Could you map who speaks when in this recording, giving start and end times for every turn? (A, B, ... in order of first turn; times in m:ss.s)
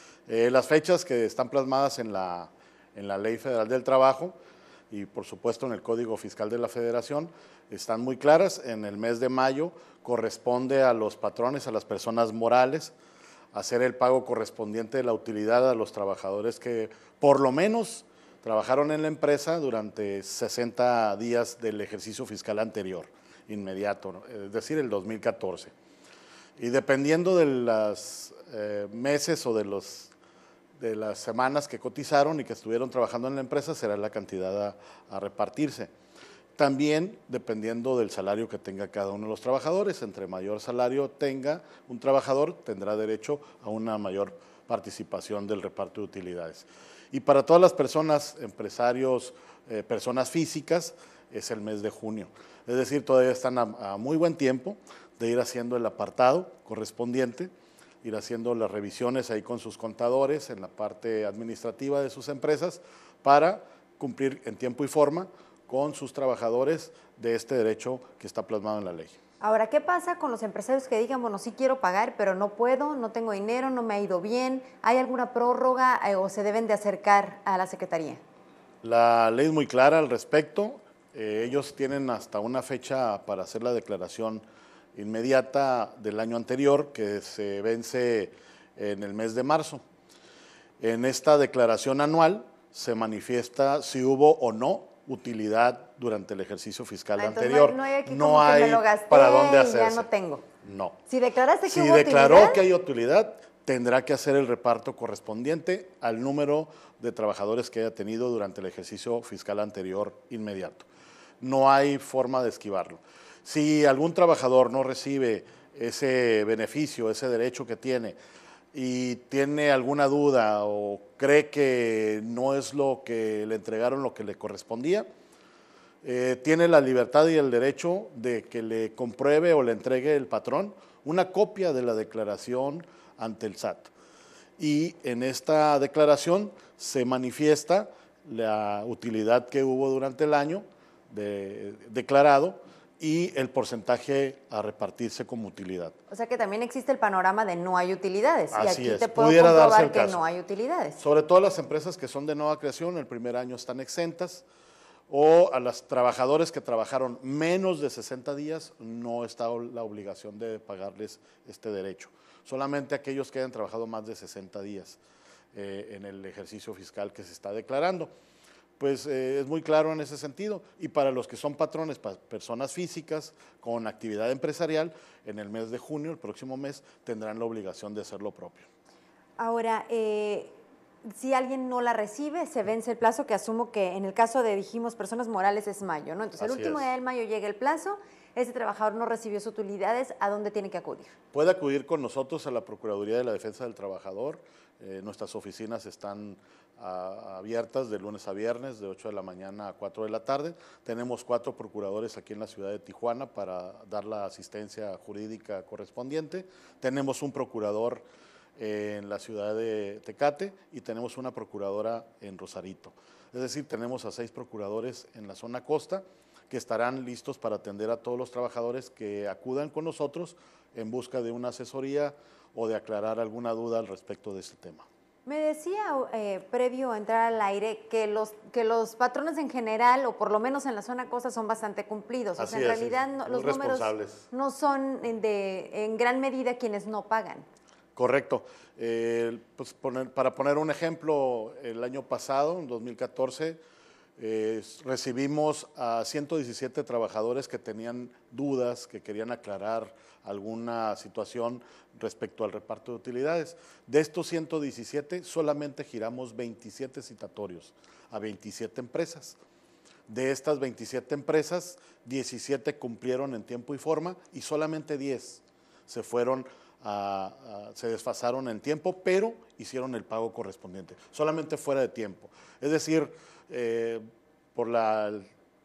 0:00.3-0:04.3 A
0:04.9-0:13.0 A
0:13.5-0:25.7 A
0:26.6-0:30.1 A
0:30.8-0:35.9 A
0:36.6-0:57.5 A
0:58.0-1:09.1 A
1:09.4-1:18.2 B
1:18.8-1:24.4 A
1:25.0-1:29.8 A
1:30.8-1:40.0 A
1:37.2-1:40.4 B
1:40.6-1:41.0 A
1:41.1-1:42.6 B
1:41.7-1:50.9 A
1:51.4-1:58.2 A
1:58.7-2:05.1 A
2:06.0-2:13.9 A
2:14.6-2:25.9 A
2:26.1-2:31.0 B
2:28.5-2:30.2 A
2:31.0-2:34.4 A
2:35.1-2:45.0 A
2:45.5-2:48.1 A
2:48.8-2:58.7 A
2:59.4-3:00.5 B
3:01.1-3:11.1 B
3:06.4-3:06.9 A
3:11.3-3:28.0 A
3:28.6-3:44.9 A
3:45.2-3:57.5 B
3:52.4-3:54.3 A
3:58.0-4:03.6 A
4:04.2-4:19.4 A
4:20.1-4:35.3 A